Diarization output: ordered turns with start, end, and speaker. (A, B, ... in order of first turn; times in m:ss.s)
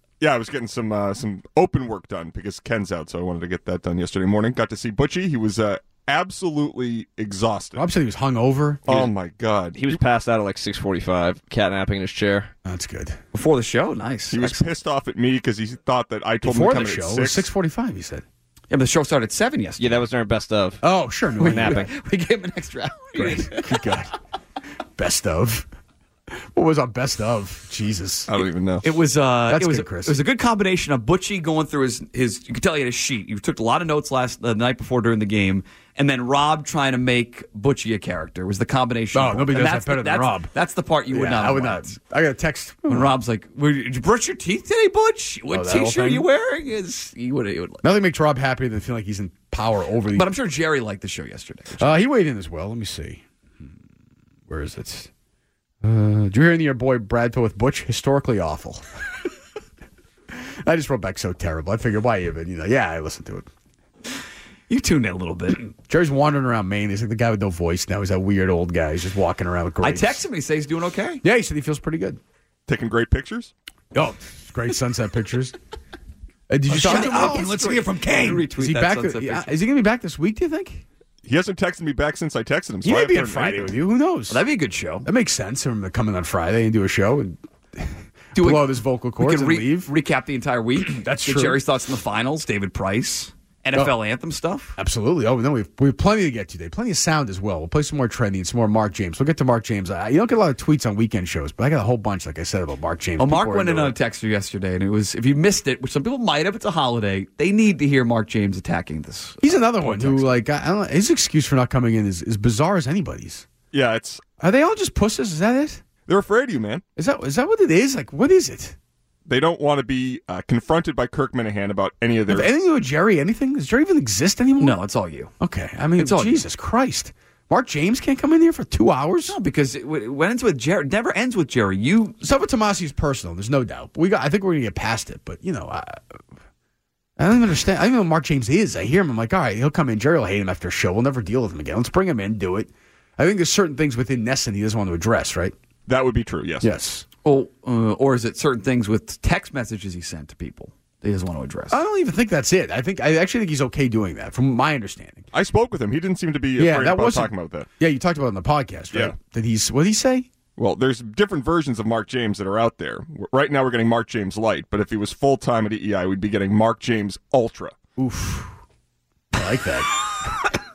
0:00.2-0:07.8 A
0:07.8-0:09.1 B
0:08.9-0:10.0 A
0:09.8-0:12.5 C
0:12.6-0:13.2 B
0:13.3-0:14.6 D
0:14.3-0:17.5 A
0:16.4-0:18.2 B
0:18.7-0:20.1 D
0:19.8-0:20.8 C
0:20.8-0:21.9 B
0:21.4-0:23.8 D
0:23.2-0:24.1 B
0:25.0-0:25.7 B
0:26.3-0:28.3 B
0:28.3-0:28.8 A
0:28.8-0:42.0 D
0:29.5-0:30.2 B
0:39.1-0:40.5 B
0:41.1-0:43.1 B
0:42.9-0:47.8 D
0:45.5-0:46.3 B
0:47.8-0:50.3 B
0:50.1-0:51.9 D
0:51.8-0:53.7 B
0:54.5-0:55.1 B
0:55.8-0:58.9 B
1:00.6-1:03.5 B
1:04.7-1:05.7 D
1:05.8-1:10.2 B
1:09.8-1:11.2 D
1:11.2-1:12.2 B
1:12.7-1:13.5 A
1:13.9-1:15.6 B
1:16.5-1:20.8 B
1:16.7-1:19.6 D
1:21.2-1:23.7 A
1:22.8-1:24.4 B
1:24.3-1:25.1 D
1:25.0-1:29.9 B
1:28.4-1:34.8 D
1:30.8-1:31.6 B
1:34.8-1:44.0 B
1:43.2-1:50.3 D
1:49.4-1:53.5 B
1:53.7-1:54.2 A
1:54.4-1:55.8 B
1:56.1-1:56.8 A
1:57.0-1:58.8 B
1:59.3-2:02.5 A
2:02.3-2:04.8 B
2:04.6-2:05.3 D
2:05.4-2:09.4 B
2:06.0-2:06.4 D
2:09.3-2:12.2 D
2:12.2-2:16.0 B
2:17.2-2:25.6 B
2:25.9-2:26.7 A
2:26.6-2:27.1 B
2:27.2-2:31.8 D
2:31.7-2:35.3 B
2:35.3-2:37.7 A
2:36.6-2:40.3 B
2:40.6-2:47.8 A
2:48.0-2:48.5 B
2:49.3-2:50.3 B